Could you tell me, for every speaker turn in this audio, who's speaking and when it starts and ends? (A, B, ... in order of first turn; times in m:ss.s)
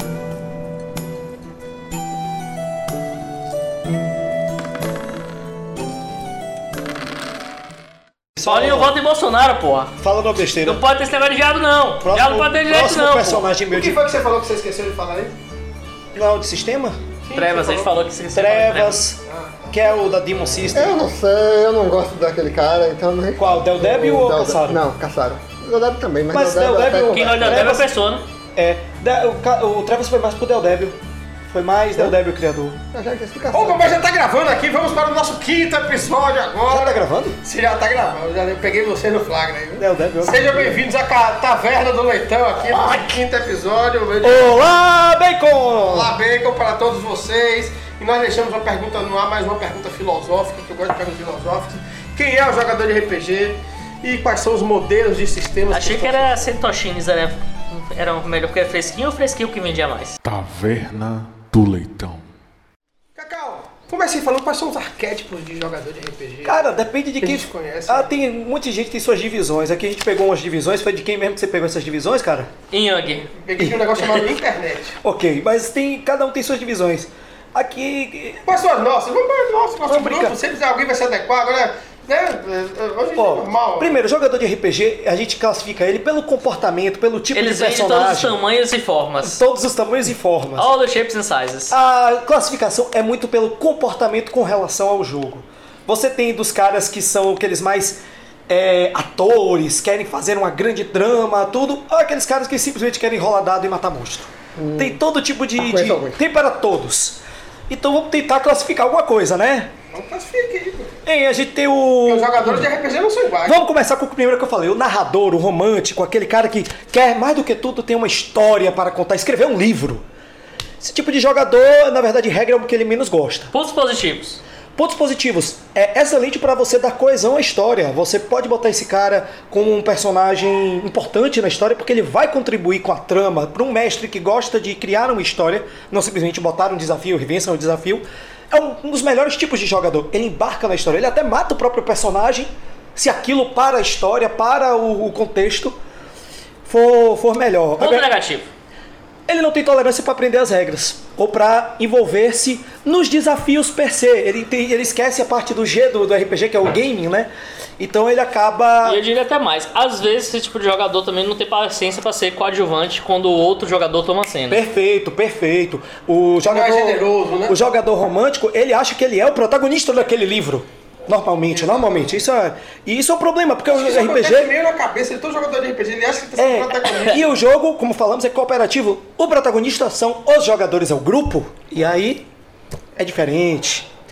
0:08.4-0:09.0 A
0:08.4-0:09.9 B
0:10.0-0:10.8 A
0:10.6-0:13.5 B
0:12.0-0:14.0 A
0:13.7-0:15.4 C
0:16.2-0:17.0 A
0:17.2-0:18.0 C
0:17.3-0:19.0 B
0:18.3-0:19.2 A
0:19.2-0:19.8 C
0:19.7-0:21.0 A
0:20.7-0:27.7 D
0:23.4-0:24.8 A
0:26.3-0:27.9 A
0:27.1-0:28.2 B
0:28.6-0:31.0 A
0:31.5-0:32.8 A
0:32.9-0:34.0 D
0:33.5-0:44.5 C
0:36.7-0:37.4 A
0:39.8-0:40.7 A
0:42.7-0:43.2 A
0:44.2-0:46.1 A
0:45.8-0:56.5 C
0:55.7-1:00.2 B
1:00.2-1:02.3 E
1:03.2-1:06.7 C
1:06.4-1:12.5 A
1:07.2-1:08.1 C
1:12.7-1:13.3 B
1:13.3-1:15.0 C
1:13.6-1:14.1 A
1:15.0-1:18.4 A
1:18.4-1:24.0 C
1:19.9-1:20.3 A
1:23.2-1:28.4 A
1:27.3-1:29.4 B
1:29.2-1:30.7 A
1:30.6-1:31.7 B
1:31.7-1:49.7 A
1:44.6-1:45.0 D
1:45.6-1:46.2 D
1:49.9-1:50.9 C
1:51.0-1:52.6 A
1:52.0-1:53.6 C
1:53.4-2:00.0 A
2:00.8-2:03.5 A
2:03.5-2:04.4 B
2:04.8-2:25.8 A
2:26.6-2:28.1 A
2:27.8-2:28.5 B
2:29.3-2:39.0 A
2:38.8-2:44.6 B
2:44.5-2:54.5 A
2:46.4-2:47.6 C
2:51.5-2:52.2 C
2:53.7-2:57.3 C
2:56.4-3:02.3 A
3:03.0-3:03.9 A